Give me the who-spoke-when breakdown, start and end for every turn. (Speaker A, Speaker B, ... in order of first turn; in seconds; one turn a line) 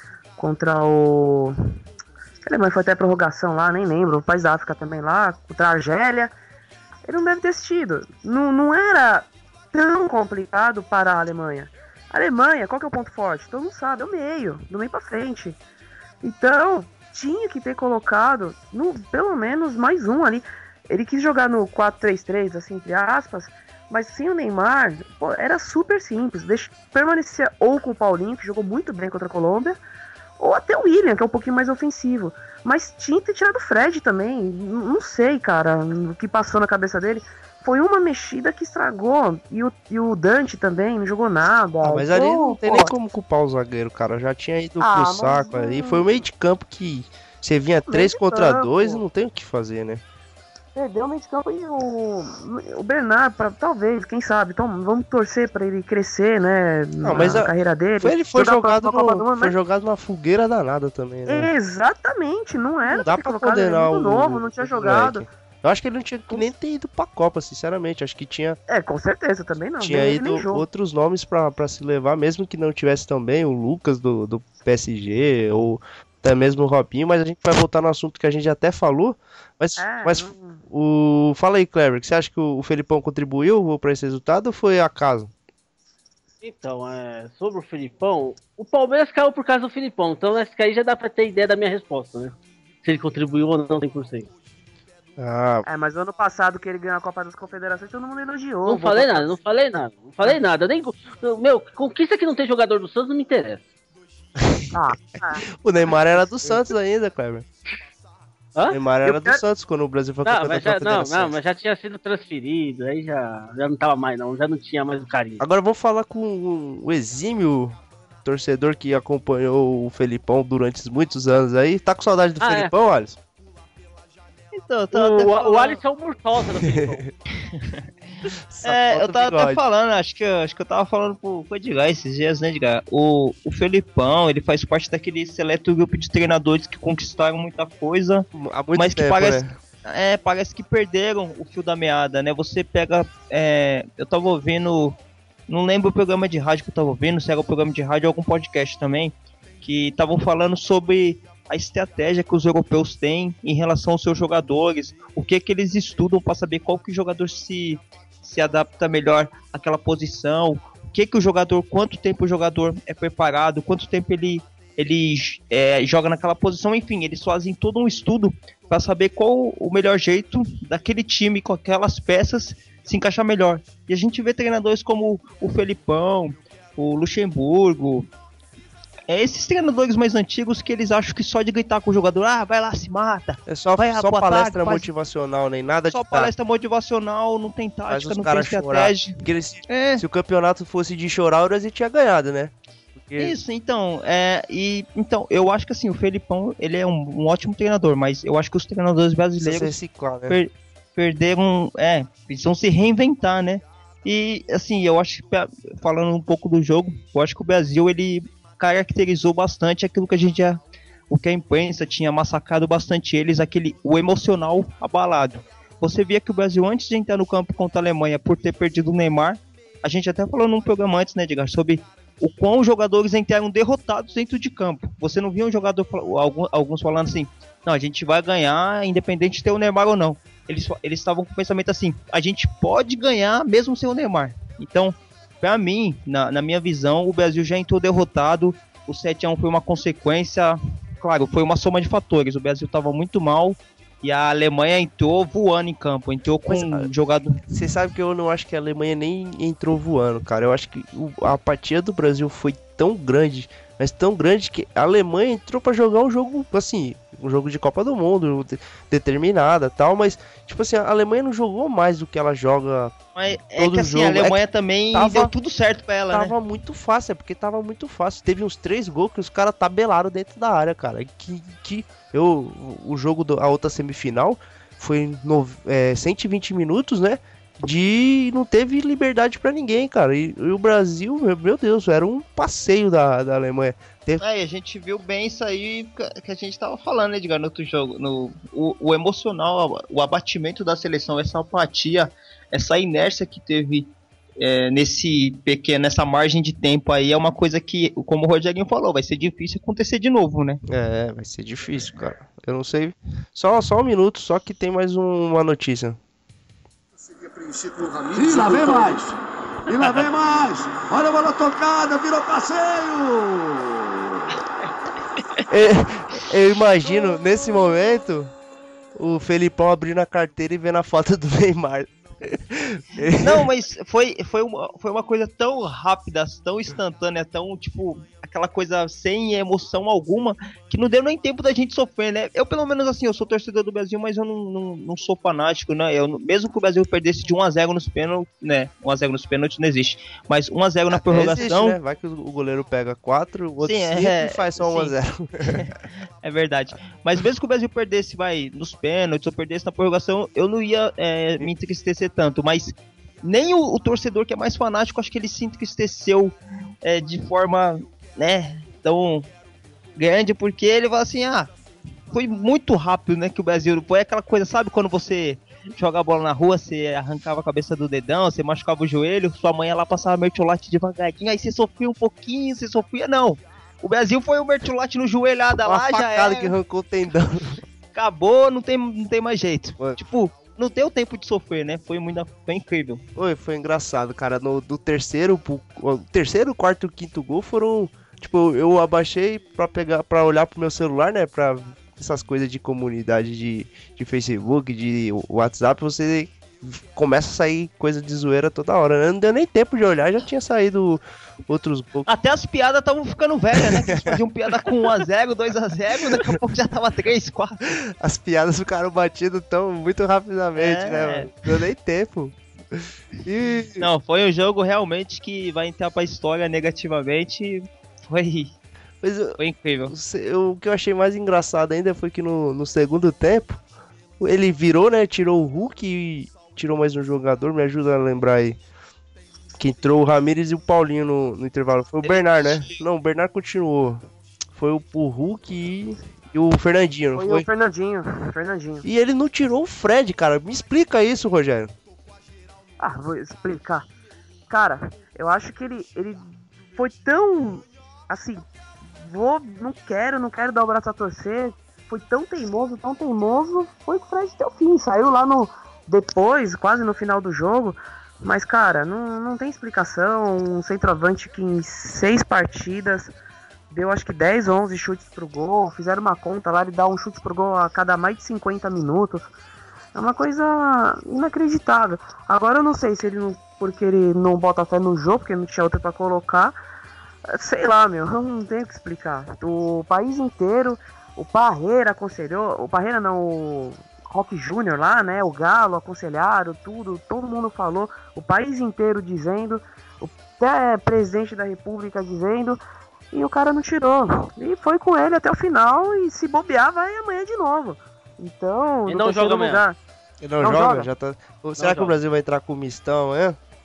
Speaker A: 0.4-1.6
Speaker A: 2.4-6.3
Speaker A: 7.1-15.6
Speaker A: 16.2-29.8
Speaker A: 30.4-42.9
Speaker B: 41.8-50.0
Speaker A: 44.8-46.1
Speaker A: 47.9-49.0
Speaker A: 50.7-59.5
Speaker B: 57.0-61.5
Speaker A: 61.2-65.2
Speaker B: 62.9-68.6
Speaker A: 68.7-70.7
Speaker B: 69.8-85.3
Speaker A: 79.8-80.6
Speaker C: 86.4-94.3
Speaker B: 95.2-95.6
Speaker A: 95.6-99.3
Speaker C: 98.7-103.6
Speaker B: 104.4-104.7
Speaker A: 104.7-105.4
Speaker B: 105.5-107.5
Speaker B: 108.7-111.3
Speaker A: 109.0-109.4
Speaker C: 110.2-115.4
Speaker B: 115.4-123.2
Speaker C: 122.4-122.7
Speaker D: 124.5-125.8
Speaker C: 124.9-127.0
Speaker B: 126.6-127.0
Speaker D: 127.4-127.8
Speaker B: 128.5-129.6
Speaker D: 128.6-145.0
Speaker B: 138.3-139.5
Speaker D: 145.5-178.1
Speaker D: 179.1-184.9
Speaker B: 183.5-186.3
Speaker D: 185.9-190.0
Speaker B: 187.9-193.3
Speaker D: 193.2-199.8
Speaker B: 199.4-200.4
Speaker D: 200.3-247.4
Speaker B: 246.5-246.9
Speaker B: 247.5-262.9
Speaker D: 263.1-266.3
Speaker B: 263.6-264.4
Speaker B: 264.9-265.3
Speaker B: 266.1-284.2
Speaker D: 284.2-300.6
Speaker B: 300.7-306.0
Speaker E: 307.0-309.1
Speaker E: 309.6-314.2
Speaker B: 315.5-318.3
Speaker B: 318.9-323.5
Speaker D: 323.2-341.8
Speaker B: 340.9-345.6
Speaker D: 343.6-344.9
Speaker D: 345.4-359.3
Speaker D: 360.0-361.5
Speaker D: 362.1-376.5
Speaker B: 375.6-377.6
Speaker D: 377.9-383.0
Speaker B: 383.1-402.1
Speaker D: 402.1-407.7
Speaker B: 403.6-404.2
Speaker B: 407.7-413.9
Speaker D: 410.6-411.3
Speaker D: 413.8-418.6
Speaker B: 419.0-423.6
Speaker D: 419.4-419.9
Speaker B: 424.2-428.6
Speaker B: 429.6-434.0
Speaker D: 432.0-432.8
Speaker B: 434.6-437.4
Speaker A: 437.1-438.8
Speaker B: 438.8-441.7
Speaker A: 442.8-443.8
Speaker A: 444.5-463.1
Speaker A: 463.7-469.3
Speaker A: 469.9-476.5
Speaker A: 477.3-492.6
Speaker A: 493.1-499.8
Speaker C: 498.9-499.6
Speaker B: 500.2-503.4
Speaker A: 500.4-500.9
Speaker C: 501.6-501.9